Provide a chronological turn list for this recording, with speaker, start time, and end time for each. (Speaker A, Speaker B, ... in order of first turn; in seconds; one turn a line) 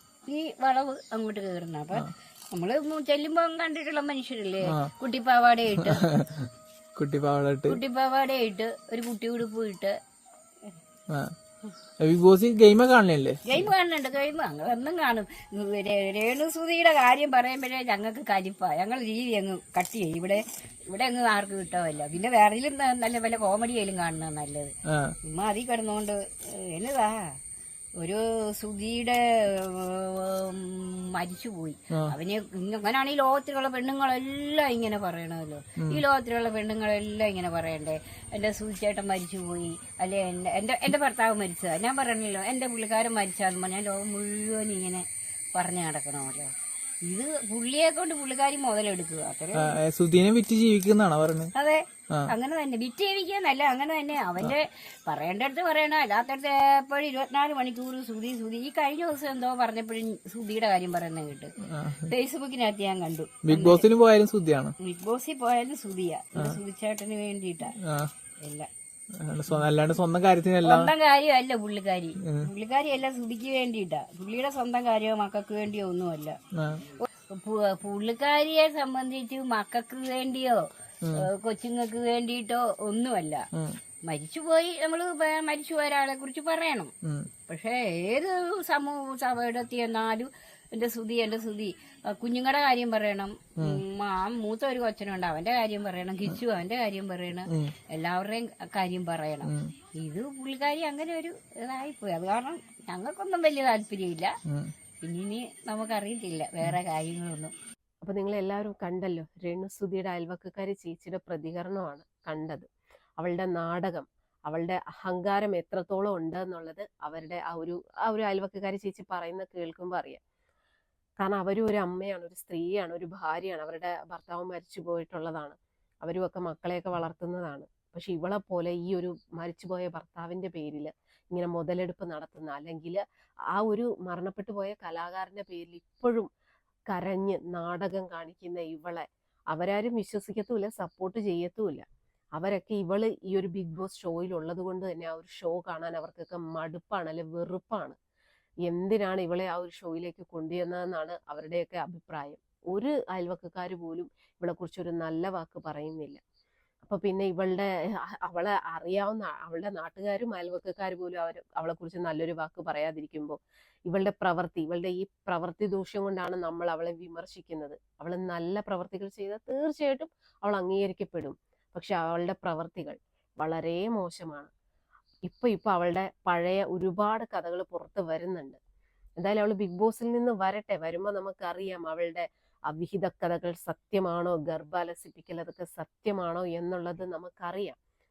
Speaker A: 0.3-6.0
Speaker B: 5.8-6.5
Speaker B: 7.0-7.8
Speaker A: 7.7-10.0
Speaker B: 12.0-13.7
Speaker A: 13.5-27.4
Speaker B: 24.9-25.1
Speaker A: 28.0-46.5
Speaker B: 35.8-36.0
Speaker A: 47.0-49.8
Speaker B: 49.6-51.5
Speaker A: 51.5-63.9
Speaker B: 63.5-64.8
Speaker A: 64.8-67.8
Speaker B: 67.8-68.1
Speaker A: 68.4-68.7
Speaker B: 69.2-70.9
Speaker A: 70.7-76.4
Speaker B: 76.5-76.8
Speaker A: 77.0-83.5
Speaker A: 84.1-86.9
Speaker B: 87.0-87.3
Speaker A: 87.5-104.3
Speaker B: 99.5-99.7
Speaker B: 104.5-104.7
Speaker A: 105.0-107.5
Speaker C: 108.0-112.7
Speaker C: 113.2-120.2
Speaker C: 121.2-133.0
Speaker C: 133.6-136.3
Speaker C: 136.9-148.0
Speaker C: 148.7-156.2
Speaker C: 156.8-174.5
Speaker C: 175.3-178.6
Speaker C: 179.2-187.8